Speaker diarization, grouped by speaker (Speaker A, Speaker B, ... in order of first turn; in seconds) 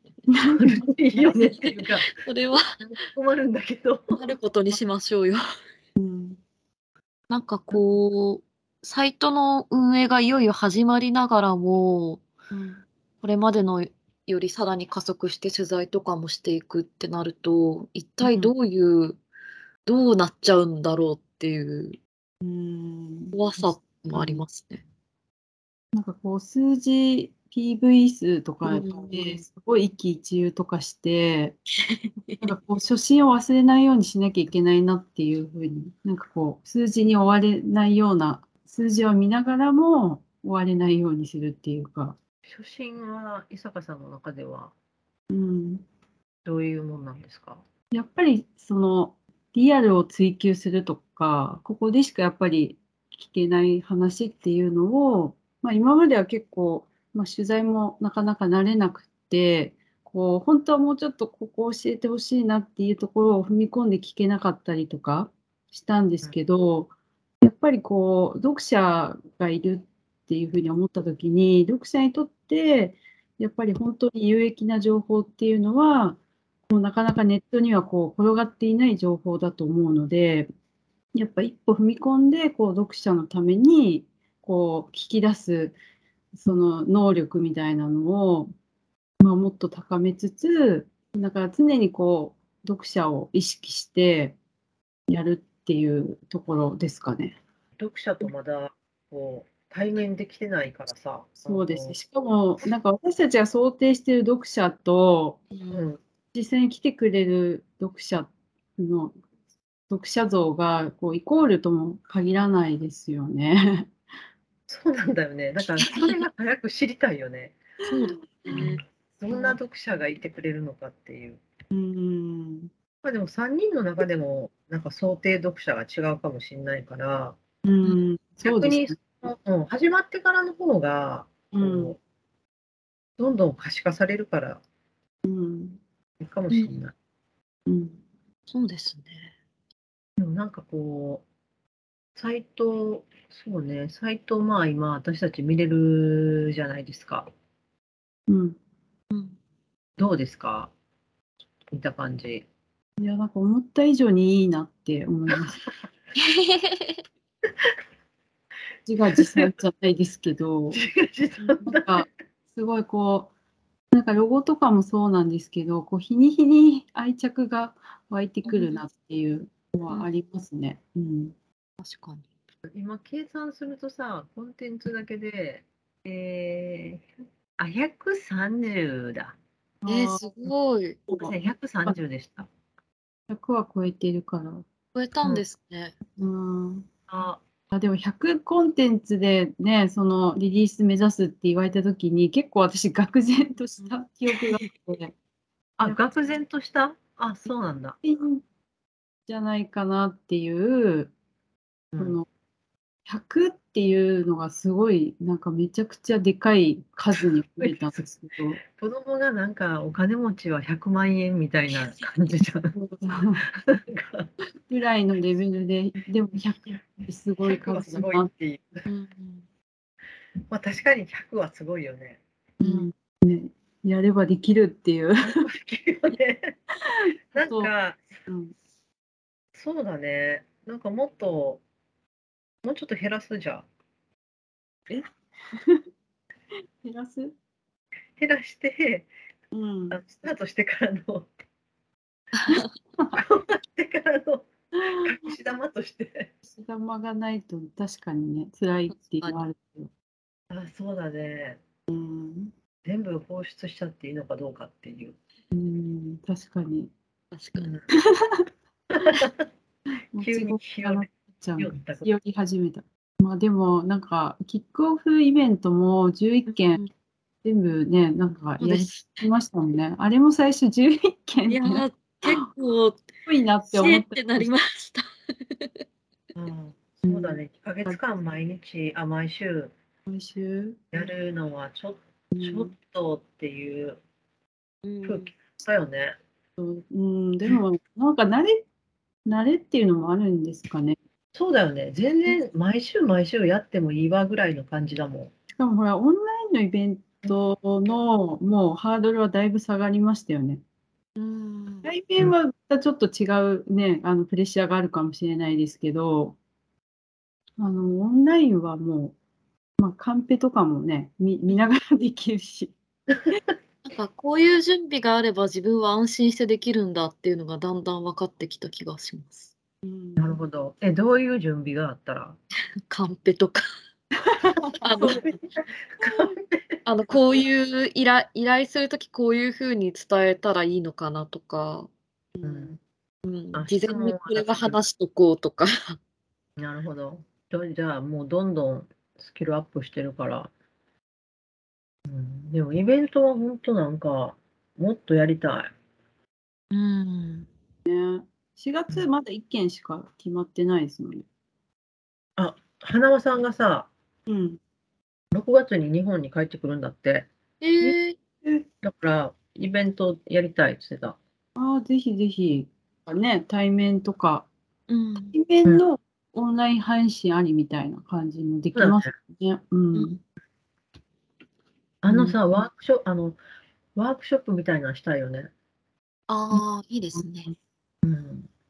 Speaker A: 0.3-0.8, 6.0-6.4, 12.5-12.8, 18.2-18.5, 22.4-24.4, 25.9-31.6, 32.4-42.2, 45.3-45.8, 47.9-80.5, 81.1-85.8, 86.4-88.5, 89.2-94.4, 95.1-97.4, 101.4-105.4, 106.3-109.2, 109.9-113.9, 121.7-122.7, 127.6-128.9, 131.5-131.9, 135.2-135.8, 137.7-138.0, 148.3-148.6, 153.0-155.6, 158.8-160.8, 161.5-163.3, 163.9-171.3, 179.8-180.4, 183.3-184.6, 186.2-186.9, 187.7-195.1, 195.8-196.2, 198.0-198.4, 199.3-201.1, 202.0-202.2, 203.1-208.6, 212.7-213.4, 214.7-218.3, 222.6-225.5, 227.4-227.7, 228.3-228.5, 234.9-235.8, 236.8-237.3, 239.5-240.0, 244.8-245.1, 246.4-249.9, 251.9-252.5, 255.5-256.9, 260.1-266.8, 267.4-272.3, 273.3-274.5, 280.1-280.9, 282.3-282.7, 286.6-288.6, 289.2-291.0, 295.6-300.6, 301.8-306.4, 307.6-309.1, 309.8-312.7, 319.8-320.3, 332.4-332.8, 347.9-351.3, 354.3-354.6, 361.6-364.5, 365.3-370.2, 372.1-372.4, 377.1-377.5
Speaker B: 0.6-2.1, 2.8-4.8, 42.4-44.7, 46.4-47.6, 97.8-102.0, 105.7-106.0, 114.7-117.6, 118.5-121.4, 123.0-127.4, 128.4-132.0, 133.2-134.6, 136.2-136.9, 140.2-141.2, 142.2-147.3, 150.0-150.7, 151.7-152.4, 159.2-159.5, 160.7-162.0, 172.7-177.0, 177.6-179.3, 181.2-182.5, 187.1-187.4, 195.8-198.0, 208.7-212.7, 213.7-214.3, 217.4-218.8, 220.5-222.2, 225.3-226.5, 227.3-228.0, 229.5-231.6, 232.6-233.7, 238.2-239.1, 239.9-241.3, 243.1-246.3, 250.5-251.6, 252.8-255.2, 257.6-257.8, 259.1-259.4, 260.2-262.1, 276.3-279.7, 280.9-284.0, 285.0-286.1, 291.3-295.3, 320.2-322.4, 325.0-325.4, 326.0-326.8, 332.4-332.7, 333.5-334.8, 336.6-340.5, 342.1-345.7, 352.4-353.9, 355.3-357.3, 358.8-361.2, 368.7-369.1, 372.0-373.4, 373.9-375.5, 378.0-378.5
Speaker C: 1.2-2.6, 4.1-5.4, 7.3-12.2, 13.2-19.2, 19.9-22.0, 23.3-24.8, 28.6-29.4, 31.9-32.4, 105.5-105.8, 115.8-116.2, 117.9-118.8, 136.5-136.8, 138.5-139.3, 149.1-149.3, 156.2-157.0, 168.4-168.8, 171.8-172.2, 179.8-181.0, 184.9-185.9, 194.3-194.6, 211.8-212.2, 218.8-219.4, 222.6-222.9, 242.3-242.7, 248.9-249.4, 257.3-257.7, 266.5-266.9, 268.6-269.2, 271.5-273.0, 273.7-275.0, 275.6-275.8, 284.8-285.3, 301.2-301.9, 313.9-319.5, 322.9-323.6, 324.8-325.3, 326.8-331.9, 333.2-336.0, 346.7-347.5, 357.6-358.2, 364.9-365.3, 376.3-377.5